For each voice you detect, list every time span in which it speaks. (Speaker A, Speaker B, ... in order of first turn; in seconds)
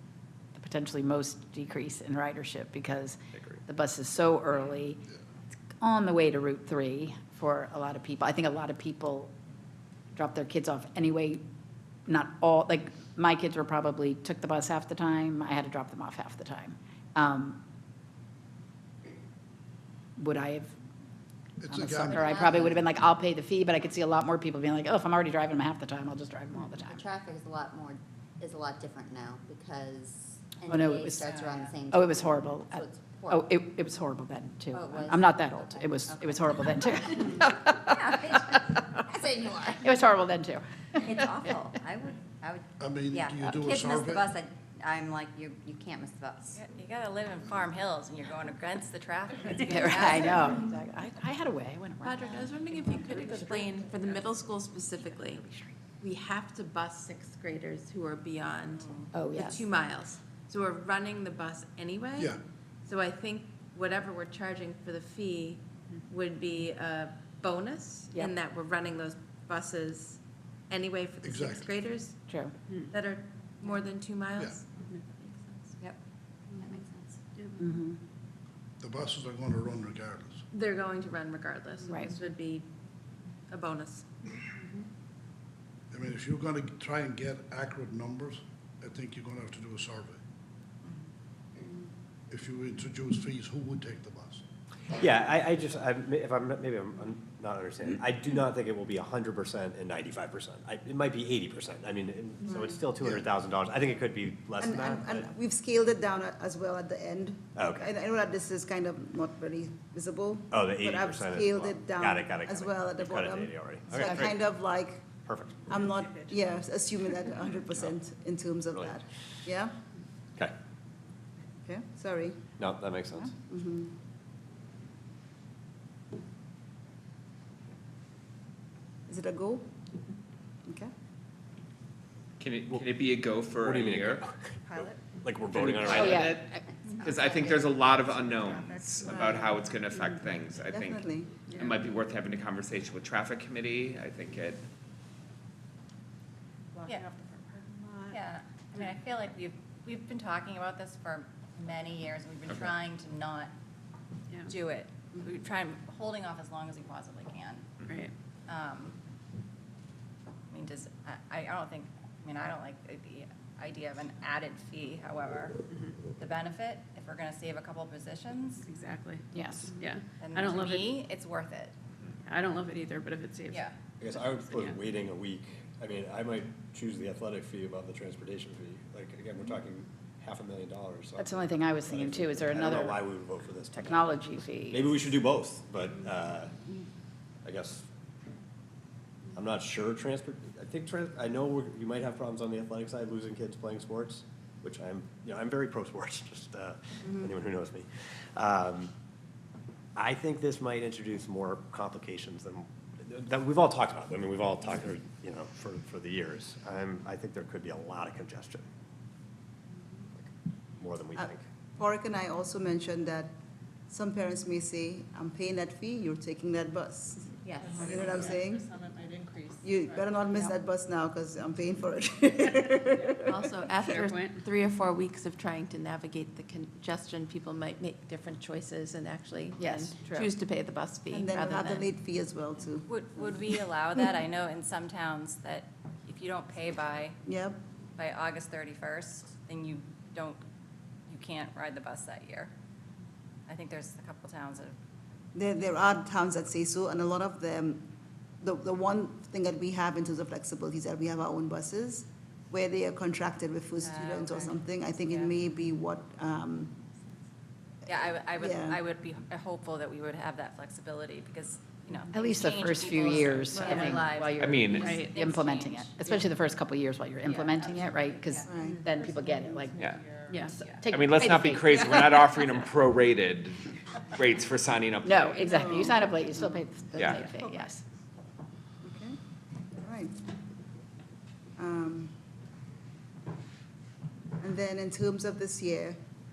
Speaker A: 0.5-5.0, 5.8-9.3, 10.1-11.4, 12.1-17.6, 20.2-20.7, 21.7-26.9, 30.6-31.3, 31.8-38.8, 39.7-41.3, 49.6-53.6, 55.0-55.7, 59.1-59.7, 72.3-72.5, 77.5-78.0, 81.9-82.1, 135.9-136.6, 169.3-169.7, 181.2-183.1, 183.7-184.9, 229.6-230.3, 262.1-272.4, 275.0-277.8
Speaker B: 3.3-3.6, 94.9-105.3, 107.5-107.9, 110.5-114.4, 115.2-115.7, 118.7-119.0, 122.6-123.3, 133.6-136.1, 174.0-186.5, 187.4-187.8, 189.3-198.9, 199.9-208.6, 210.8-211.4
Speaker C: 21.6-22.1, 42.8-44.2, 71.2-71.6, 78.8-80.4, 85.9-90.2, 92.3-94.4
Speaker D: 22.1-22.8, 26.9-33.4, 34.7-36.6, 37.8-39.8, 41.0-46.6, 76.6-77.2, 217.4-217.8
Speaker E: 31.2-31.7, 46.5-50.7, 58.8-59.1, 137.0-137.5, 148.1-153.5, 154.4-157.7, 158.5-158.9, 160.5-165.6, 166.1-168.7, 170.2-171.7, 232.9-237.2, 238.0-240.4, 241.1-242.5, 243.5-244.8, 253.8-255.3, 257.9-265.9, 267.2-268.5
Speaker F: 52.0-55.4, 56.0-70.2, 70.7-72.2, 72.8-75.8, 80.5-82.7, 83.5-84.1, 223.2-231.9
Speaker G: 72.7-72.9, 141.5-141.8, 146.8-148.2, 168.7-170.9, 172.2-173.7, 174.5-174.8, 223.9-224.4, 264.7-265.2, 270.3-270.6
Speaker H: 102.5-103.3, 104.6-115.0, 115.7-119.7, 121.7-122.5, 123.2-124.0, 129.1-129.7, 139.0-139.5, 140.7-141.4, 211.2-213.3, 213.9-218.8, 219.6-223.3, 231.1-233.5, 237.2-237.6, 245.3-247.8, 248.4-256.8, 258.4-258.8, 263.6-263.8, 268.4-268.9, 275.4-275.9, 278.8-279.2, 279.8-280.1, 281.6-282.2, 284.4-286.0
Speaker I: 132.4-134.3, 135.5-144.6, 264.4-265.0, 269.7-270.1, 270.9-275.4, 277.0-277.3